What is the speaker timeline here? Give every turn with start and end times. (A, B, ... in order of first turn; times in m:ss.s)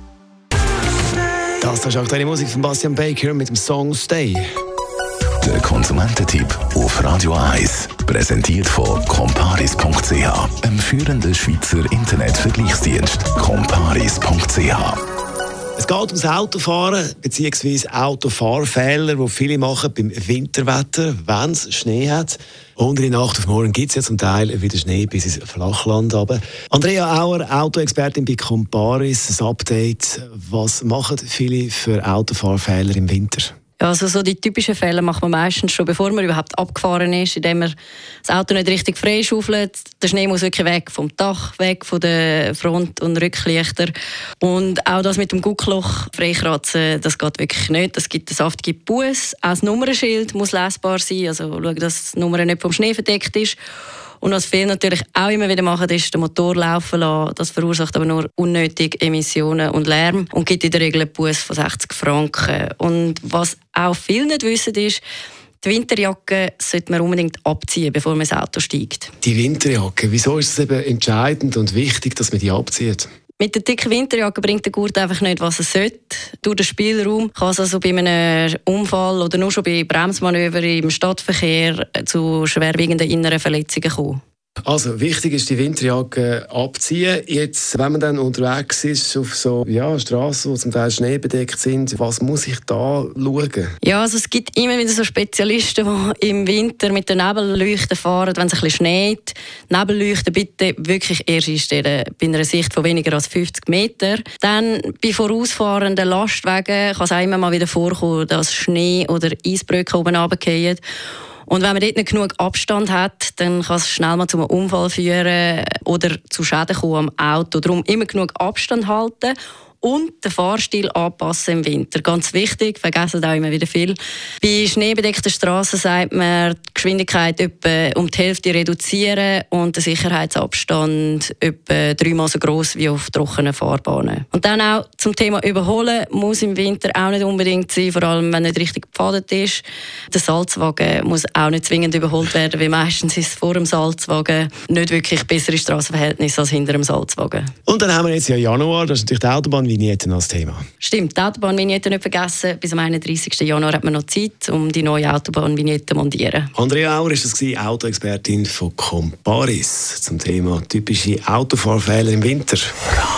0:01.6-0:04.4 A
0:05.4-0:15.0 B
0:15.8-0:33.5 A
0:33.8-0:53.6 C
0:54.2-1:05.0 C
1:05.6-1:09.1 C
1:09.2-1:13.1 A
1:13.4-1:24.2 C
1:24.6-1:33.7 A
1:33.8-1:50.8 C
1:51.5-2:27.5 C
2:27.6-2:30.6 A
2:30.8-2:36.5 C
2:36.5-2:42.7 A